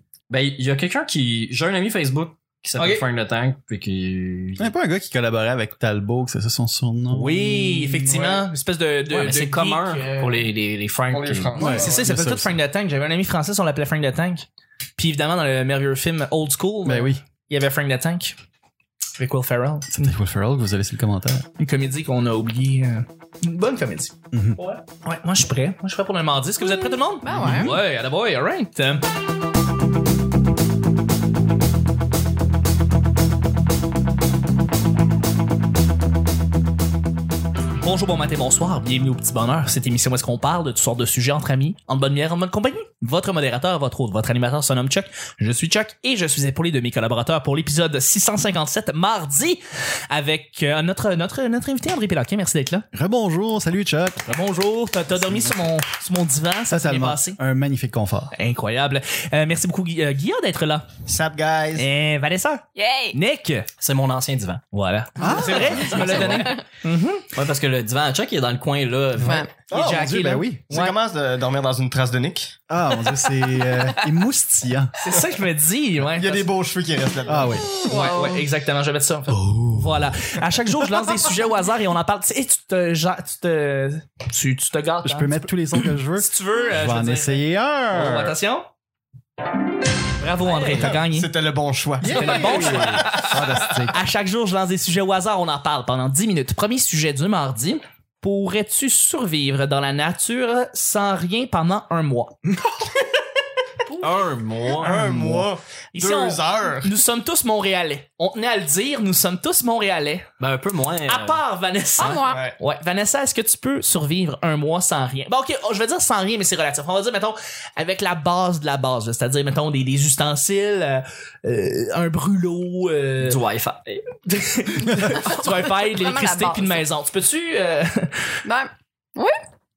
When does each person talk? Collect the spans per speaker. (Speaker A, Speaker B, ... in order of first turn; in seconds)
Speaker A: 0.3-4.7, 9.1-11.7, 63.8-64.6, 65.7-66.6, 67.3-69.4, 90.4-90.9, 104.0-105.5, 110.4-111.4, 123.2-124.0
Speaker B: 2.8-3.0, 7.1-10.5, 11.6-14.4, 15.0-18.4, 19.1-20.1, 21.6-29.0, 37.8-52.8, 54.3-57.4, 58.3-60.9, 61.7-63.7, 64.7-67.2, 69.7-70.9, 75.0-76.5, 77.8-88.7, 90.2-91.3, 92.0-102.4, 105.9-110.3, 111.1-123.4, 124.2-128.2
Speaker C: 4.6-8.2, 11.5-12.5, 16.8-17.2, 19.9-21.4, 24.3-24.6, 27.3-27.8, 52.9-54.2, 55.2-55.5, 56.7-58.3, 65.2-66.0, 69.2-70.7, 72.7-74.9, 77.3-77.7, 79.3-80.1, 85.0-88.3, 92.0-94.0
Speaker D: 8.1-8.4, 11.1-12.1, 61.0-61.9, 69.7-70.0, 70.7-72.6, 76.1-77.6, 90.7-93.3, 104.8-106.9, 112.3-112.5
Speaker E: 26.6-27.8, 62.8-63.2, 65.2-66.6, 69.2-69.6, 77.6-78.4, 112.0-112.5, 124.8-126.8, 128.4-129.3